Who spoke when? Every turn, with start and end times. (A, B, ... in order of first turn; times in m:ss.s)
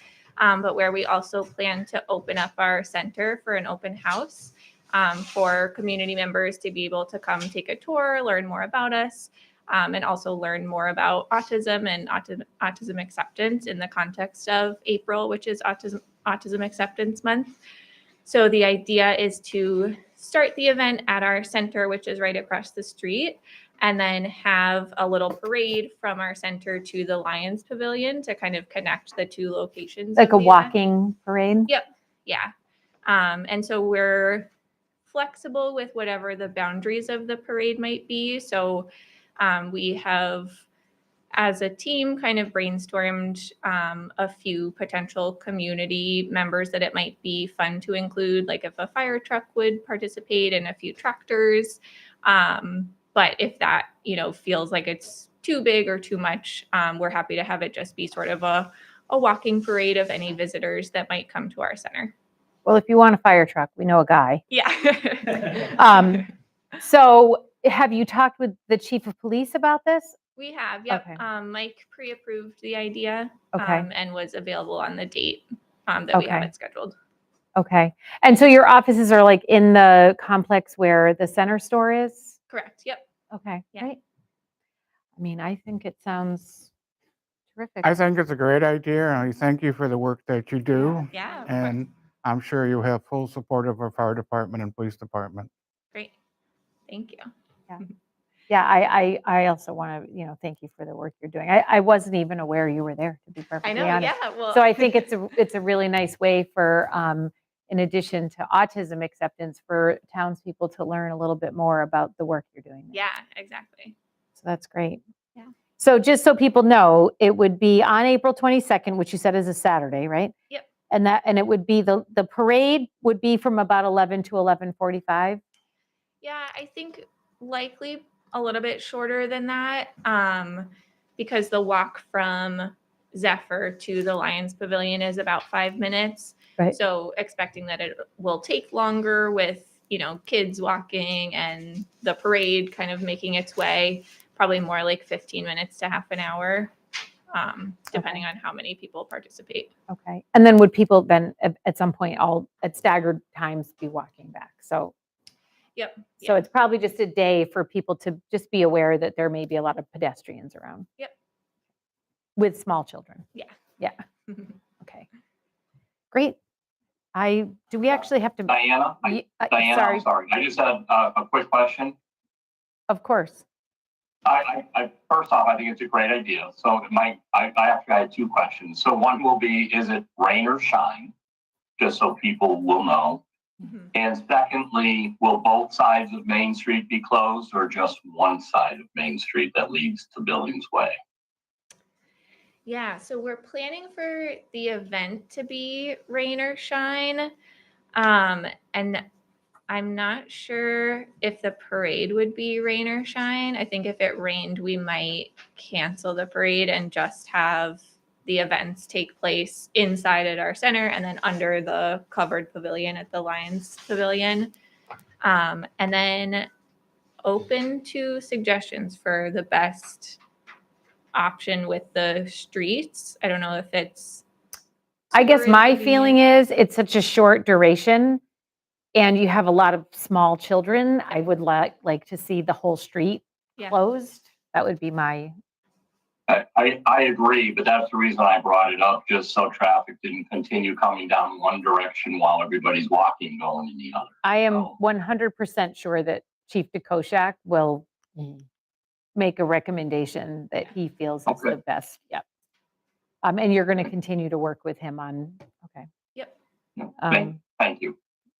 0:00.4-0:17.6 A
0:18.2-0:30.7 A
0:30.2-0:31.7 B
0:31.7-0:32.5 A
0:33.0-0:34.5 A
0:35.1-0:40.6 A
0:41.3-1:02.1 A
1:02.6-1:04.4 B
1:04.5-1:06.2 A
1:05.6-1:06.3 B
1:06.8-1:10.2 B
1:10.4-1:17.0 A
1:10.9-1:11.2 B
1:13.5-1:13.9 B
1:16.1-1:16.5 B
1:17.6-1:22.4 B
1:22.5-1:23.0 A
1:23.3-1:24.0 B
1:25.2-1:26.7 B
1:27.6-1:28.0 B
1:27.8-1:35.5 C
1:31.1-1:31.8 A
1:36.9-1:37.9 A
1:38.5-1:53.0 B
1:43.6-1:44.9 A
1:52.9-1:54.0 A
1:54.4-1:55.0 B
1:55.8-2:00.3 B
2:00.9-2:05.4 B
2:06.2-2:26.7 A
2:27.3-2:29.7 A
2:27.9-2:28.2 B
2:29.9-2:34.9 B
2:35.8-2:36.4 A
2:36.2-2:40.9 B
2:42.4-2:43.2 B
2:46.1-2:46.4 B
2:47.1-2:50.0 B
2:48.5-2:51.9 D
2:52.9-2:53.4 B
2:54.2-3:01.1 D
3:01.8-3:03.2 D
3:03.6-3:03.9 A
3:03.9-3:10.9 D
3:12.6-3:17.3 A
3:17.9-3:19.0 A
3:19.7-3:34.5 A
3:35.2-3:36.5 A
3:37.2-3:40.2 A
3:41.1-3:44.2 A
3:45.1-3:46.2 A
3:45.1-3:48.2 B
3:48.9-3:55.3 B
3:56.3-4:04.7 D
4:04.2-4:07.9 B
4:09.2-4:12.2 B
4:11.3-4:11.6 D
4:13.2-4:15.9 B
4:16.8-4:17.9 D
4:17.0-4:17.4 B